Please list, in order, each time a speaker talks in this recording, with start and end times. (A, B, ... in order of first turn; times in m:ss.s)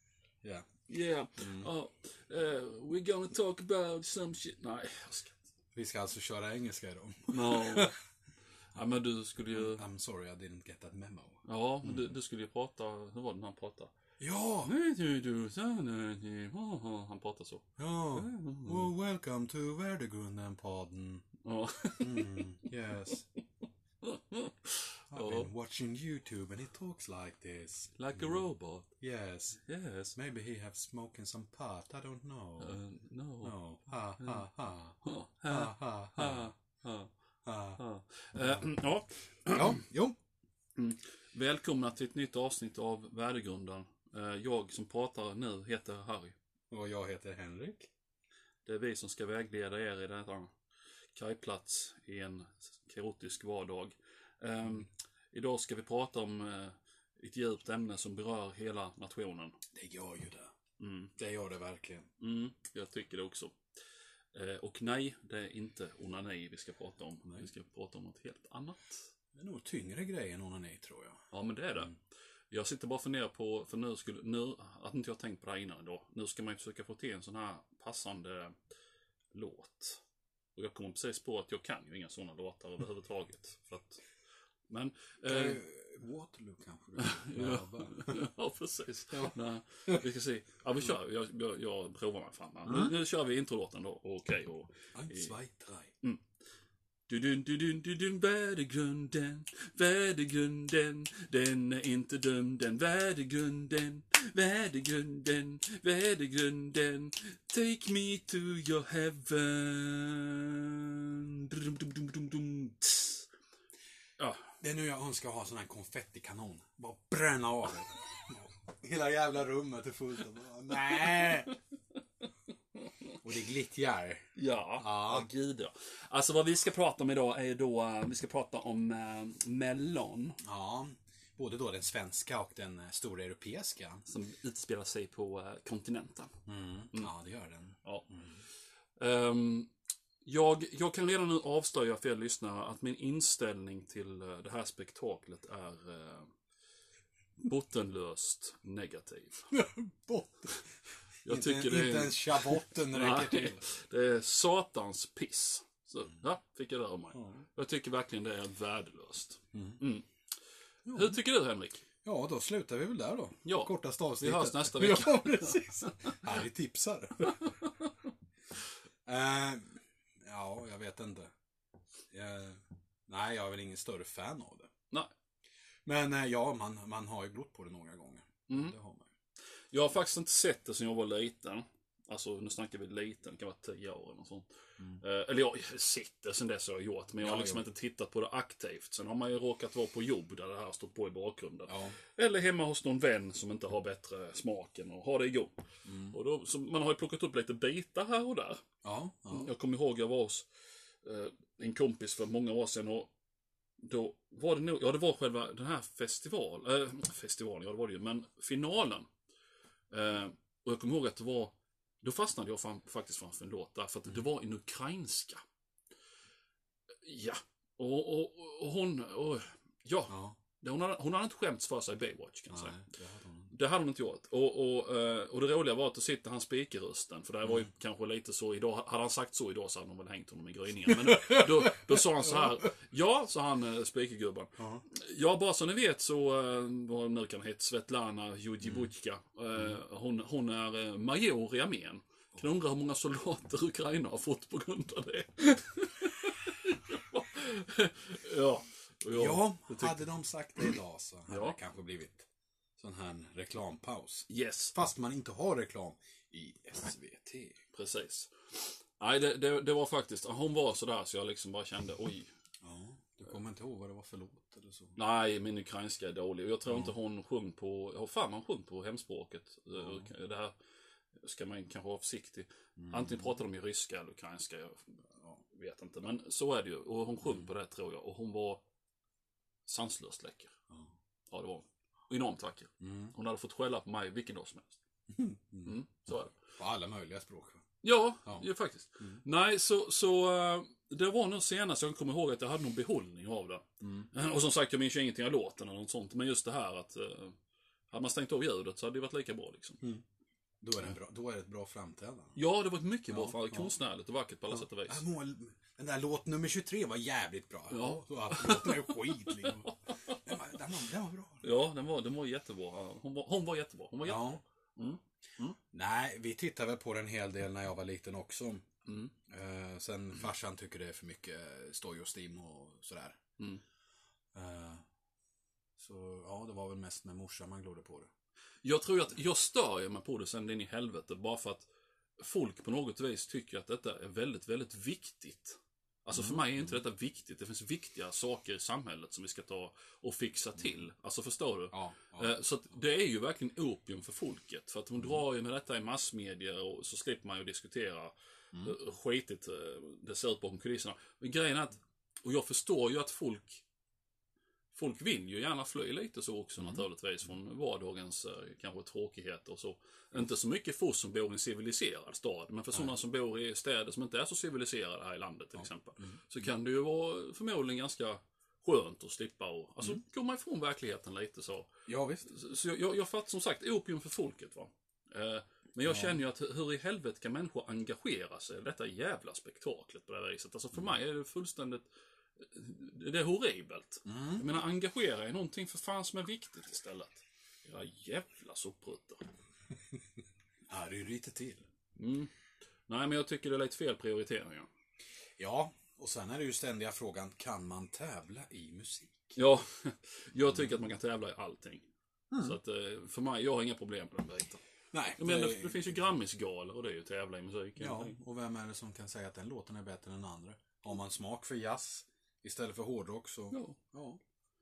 0:00.4-0:00.7 A
0:00.9-0:05.4 B
0:01.4-0:01.7 A
0:05.8-0:08.0 A
0:07.3-0:07.9 B
0:08.8-0:09.8 B
0:09.5-0:12.1 A
0:11.4-0:13.9 B
0:14.2-0:14.7 A
0:14.6-0:18.9 B
0:17.8-0:21.3 A
0:21.4-0:22.5 B
0:22.0-0:23.3 A
0:24.0-0:25.5 B
0:25.1-0:28.5 A
0:28.0-0:28.9 B
0:29.0-0:29.6 A
0:29.6-0:30.2 B
0:30.2-0:32.8 A
0:32.6-0:33.6 B
0:33.4-0:36.5 A
0:34.2-0:34.5 B
0:35.0-0:37.1 B
0:37.4-0:37.8 A
0:37.8-0:39.8 B
0:38.4-0:38.7 A
0:39.5-0:40.2 A
0:40.8-0:46.4 B
0:46.7-0:47.9 A
0:48.6-0:50.5 B
0:51.2-0:59.6 B
0:59.7-1:00.5 A
1:00.8-1:01.1 B
1:01.2-1:02.1 A
1:02.2-1:03.6 B
1:04.3-1:09.1 B
1:09.4-1:11.2 A
1:11.3-1:11.9 B
1:12.5-1:18.6 B
1:19.3-1:20.0 B
1:20.6-1:24.0 B
1:24.7-1:25.6 B
1:25.3-1:28.2 A
1:27.0-1:35.3 B
1:32.7-1:32.9 A
1:35.0-1:35.9 A
1:37.1-1:53.3 B
1:54.2-1:54.5 B
1:54.6-2:01.5 A
2:00.8-2:01.6 B
2:02.2-2:03.2 B
2:03.2-2:05.3 A
2:04.4-2:10.4 B
2:10.4-2:14.1 A
2:14.1-2:16.4 B
2:16.5-2:18.4 A
2:17.8-2:18.1 B
2:19.0-2:19.7 B
2:20.2-2:26.3 B
2:27.4-2:29.5 B
2:29.5-2:30.7 A
2:31.2-2:40.1 B
2:31.2-2:33.6 A
2:37.1-2:37.4 A
2:39.5-2:39.8 A
2:40.9-2:41.2 A
2:40.9-2:41.8 B
2:42.0-2:47.5 A
2:43.4-2:46.2 B
2:47.2-2:47.9 B
2:49.0-2:51.3 A
2:52.1-2:54.7 A
2:55.9-2:59.1 A
2:58.5-2:58.8 B
2:59.7-3:15.6 B
3:07.2-3:07.7 A
3:11.7-3:12.0 A
3:15.8-3:16.2 A
3:16.1-3:18.6 B
3:18.8-3:19.5 A
3:19.3-3:20.5 B
3:21.0-3:23.1 B
3:23.8-3:29.1 B
3:29.9-3:35.4 B
3:37.0-3:42.8 B
3:40.1-3:40.4 A
3:42.5-3:43.5 A
3:43.5-4:10.1 B
3:50.9-3:52.7 A
3:54.6-3:54.8 A
3:58.6-3:58.9 A
4:09.1-4:12.3 A
4:11.3-4:11.6 B
4:12.8-4:17.6 A
4:14.3-4:14.7 B
4:17.7-4:22.3 B
4:22.6-4:25.0 A
4:25.0-4:30.5 B
4:26.7-4:26.9 A
4:29.8-4:30.1 A
4:31.2-4:38.6 B
4:32.8-4:33.4 A
4:37.2-4:37.5 A
4:39.7-4:40.6 B
4:41.3-4:44.8 B
4:42.8-4:43.1 A
4:45.1-4:45.8 A
4:45.6-4:46.4 B
4:46.6-4:47.6 A
4:47.8-4:57.4 B
4:53.8-4:54.1 A
4:57.9-4:59.8 B
5:00.6-5:02.4 A
5:02.4-5:05.0 B
5:03.1-5:03.7 A
5:04.5-5:11.5 A
5:07.7-5:10.3 B
5:11.4-5:15.6 B
5:14.0-5:14.4 A
5:15.7-5:18.7 A
5:18.9-5:19.1 B
5:19.3-5:23.2 A
5:24.3-5:24.8 A
5:25.8-5:28.1 A
5:28.6-5:31.7 B
5:32.2-5:53.6 B
5:36.1-5:36.8 A
5:41.7-5:42.3 A
5:54.7-6:21.8 B
6:11.9-6:12.3 A
6:15.8-6:16.2 A
6:22.4-6:29.2 B
6:24.1-6:24.5 A
6:30.7-6:31.6 A
6:32.0-6:32.3 B
6:32.9-6:34.7 B
6:35.4-6:39.4 A
6:39.4-6:41.8 B
6:40.4-6:40.8 A
6:42.3-6:42.6 A
6:42.4-6:44.6 B
6:44.9-6:46.0 A
6:45.2-6:48.2 B
6:47.8-6:54.2 A
6:53.5-6:53.8 B